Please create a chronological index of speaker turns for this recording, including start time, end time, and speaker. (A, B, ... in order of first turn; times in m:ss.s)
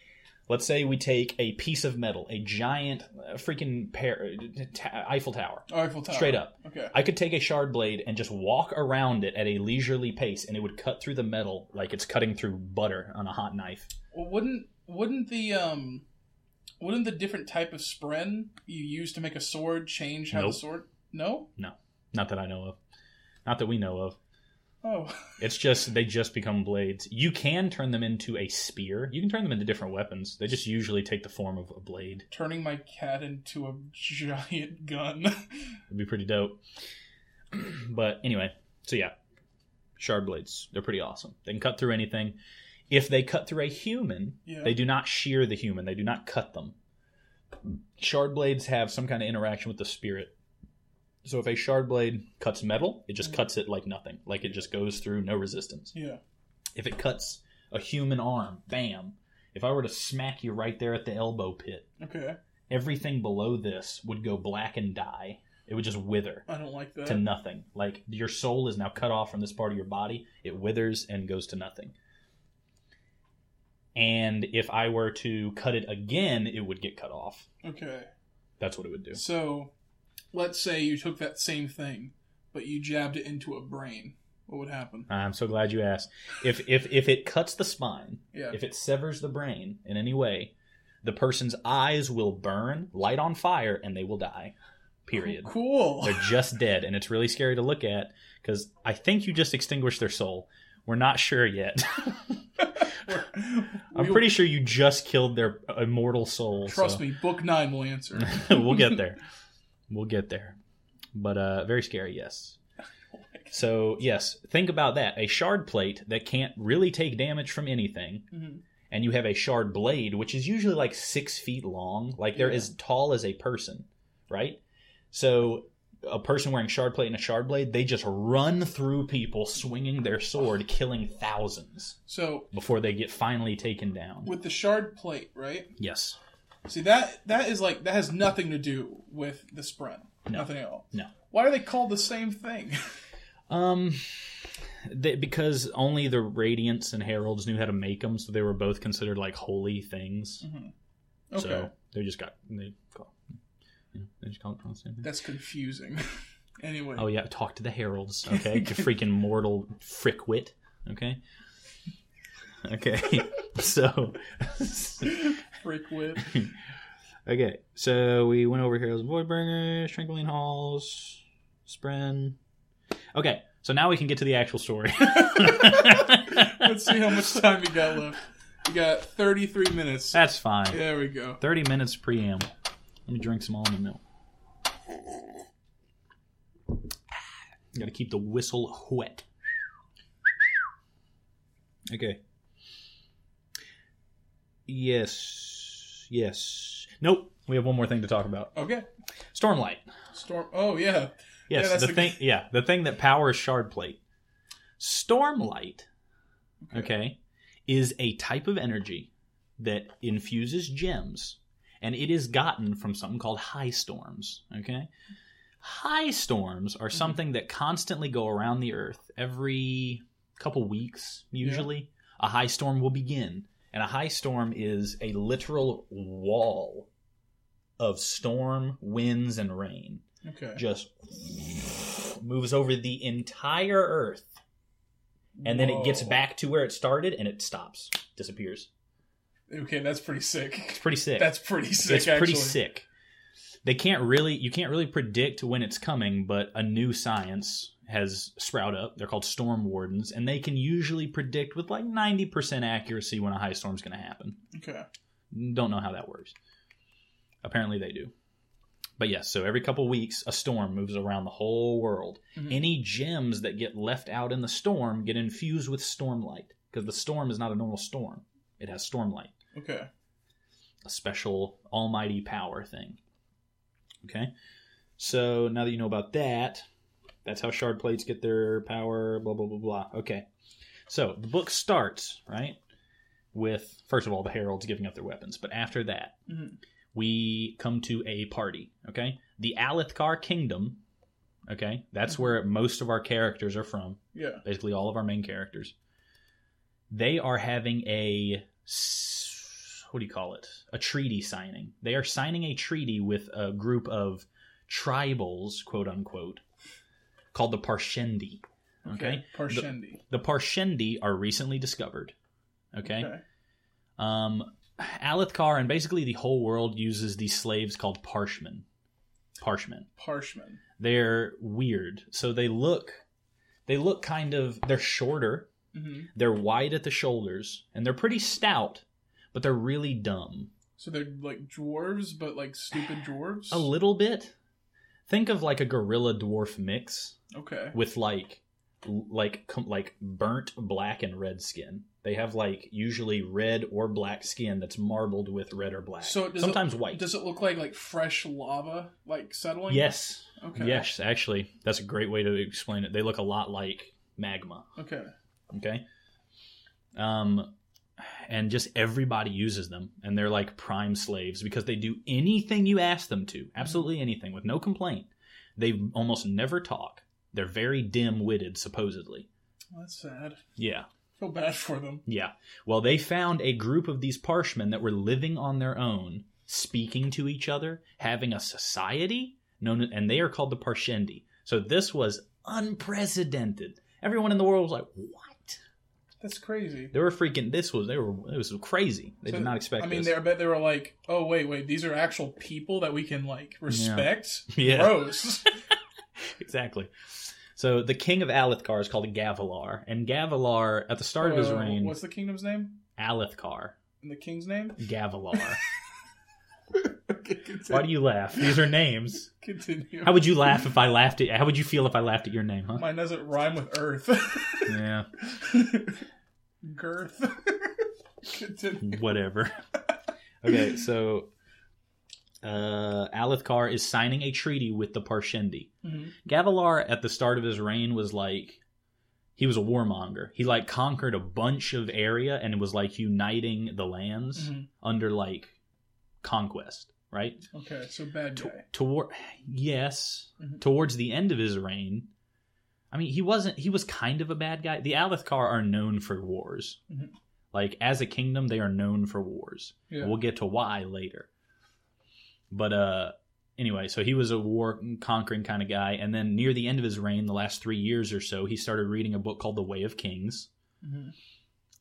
0:00.5-0:13.9 A
0:05.7-0:06.9 B
0:14.1-0:16.0 B
0:16.8-0:21.5 B
0:20.3-0:20.6 A
0:21.6-0:22.8 A
0:23.4-0:24.2 A
0:24.8-0:25.4 B
0:25.4-0:32.2 A
0:32.3-0:35.8 B
0:35.9-0:36.6 A
0:37.5-0:39.1 A
0:40.0-0:42.4 A
0:42.9-0:46.7 A
0:44.4-0:44.8 B
0:47.7-0:50.3 A
0:51.2-0:55.9 A
0:55.9-0:56.2 B
0:56.7-1:01.9 A
1:02.0-1:02.4 B
1:02.7-1:06.4 A
1:06.5-1:07.2 B
1:07.0-1:11.9 A
1:13.9-1:17.5 A
1:17.6-1:18.1 B
1:18.6-1:19.2 A
1:19.1-1:19.7 B
1:20.3-1:25.1 B
1:25.1-1:30.5 A
1:28.3-1:28.6 B
1:31.0-1:34.5 A
1:35.0-1:42.4 A
1:35.2-1:36.3 B
1:42.7-1:44.3 B
1:43.9-1:47.0 A
1:46.7-1:48.6 B
1:48.2-1:49.2 A
1:49.9-1:50.6 A
1:51.1-1:52.6 A
1:53.1-1:53.6 B
1:53.5-1:58.3 A
1:58.3-1:58.6 B
1:58.9-2:04.6 A
2:02.4-2:02.7 B
2:05.1-2:12.0 A
2:12.1-2:12.5 B
2:12.5-2:14.3 A
2:14.2-2:15.7 B
2:15.8-2:16.2 A
2:16.6-2:22.8 B
2:20.2-2:21.1 A
2:23.5-2:30.4 A
2:30.4-2:30.7 B
2:31.3-2:31.7 B
2:31.3-2:33.2 A
2:33.9-2:35.1 A
2:35.0-2:36.1 B
2:36.6-2:37.1 B
2:37.0-2:41.2 A
2:38.3-2:38.8 B
2:42.6-2:45.2 A
2:45.0-2:46.4 B
2:46.2-2:46.5 A
2:47.2-2:52.4 A
2:53.1-2:57.4 A
2:55.2-3:01.4 B
3:00.1-3:00.9 A
3:01.4-3:02.5 A
3:03.1-3:04.0 A
3:07.7-3:09.2 A
3:11.9-3:12.2 A
3:14.7-3:18.5 A
3:18.5-3:18.9 B
3:19.3-3:19.8 A
3:20.1-3:22.2 B
3:21.5-3:24.0 A
3:24.8-3:25.9 A
3:26.6-3:26.9 B
3:26.7-3:34.9 A
3:35.6-3:46.9 A
3:41.4-3:41.7 B
3:47.8-3:50.0 A
3:50.2-3:50.6 B
3:50.6-3:54.4 A
3:55.4-3:56.2 B
3:55.4-3:58.7 A
3:59.5-4:02.6 B
4:00.8-4:02.9 A
4:03.6-4:14.4 A
4:14.5-4:14.8 B
4:15.3-4:16.3 A
4:17.4-4:18.1 A
4:19.0-4:29.3 A
4:22.4-4:22.6 B
4:29.5-4:29.9 B
4:30.8-4:33.0 A
4:34.0-4:34.3 A
4:35.0-4:36.6 A
4:37.2-4:40.2 A
4:40.9-4:42.6 A
4:43.3-4:46.1 A
4:46.3-4:46.6 B
4:46.9-4:50.8 A
4:51.5-4:55.7 A
4:54.1-4:54.4 B
4:56.9-5:06.4 A
5:07.3-5:12.1 A
5:08.8-5:10.0 B
5:12.7-5:13.1 A
5:12.8-5:13.2 B
5:14.0-5:18.6 A
5:19.4-5:19.9 A
5:20.0-5:20.6 B
5:20.8-5:23.0 A
5:23.6-5:25.5 A
5:25.7-5:26.1 B
5:26.1-5:30.5 A
5:30.8-5:33.7 B
5:33.5-5:34.3 A
5:35.1-5:37.2 A
5:37.3-5:37.8 B
5:37.7-5:47.1 A
5:46.0-5:50.9 B
5:49.7-5:54.6 A
5:54.8-5:55.1 B
5:55.5-5:55.8 A
5:56.9-6:09.3 A
6:09.7-6:10.4 B
6:10.6-6:10.9 A
6:11.2-6:12.0 B
6:12.0-6:25.6 A
6:26.2-6:26.9 B
6:26.9-6:30.1 A
6:29.3-6:35.6 B
6:33.7-6:35.2 A
6:36.2-6:42.0 A
6:41.2-6:42.8 B
6:43.0-6:43.8 A
6:44.0-6:45.4 B
6:44.8-6:45.6 A
6:46.7-6:48.5 B
6:47.7-6:49.3 A
6:49.4-6:50.5 B
6:50.0-6:52.8 A
6:52.8-6:56.0 B
6:54.6-6:55.1 A
6:56.6-6:59.0 B
6:58.8-6:59.6 A
7:00.4-7:01.3 A
7:02.4-7:05.7 A
7:05.8-7:06.1 B
7:06.2-7:08.6 A
7:09.4-7:15.6 A
7:14.4-7:14.7 B
7:16.2-7:17.4 A
7:17.5-7:18.6 B
7:18.4-7:22.1 A
7:22.9-7:26.8 A
7:27.5-7:31.3 A
7:32.5-7:40.5 A
7:40.8-7:41.1 B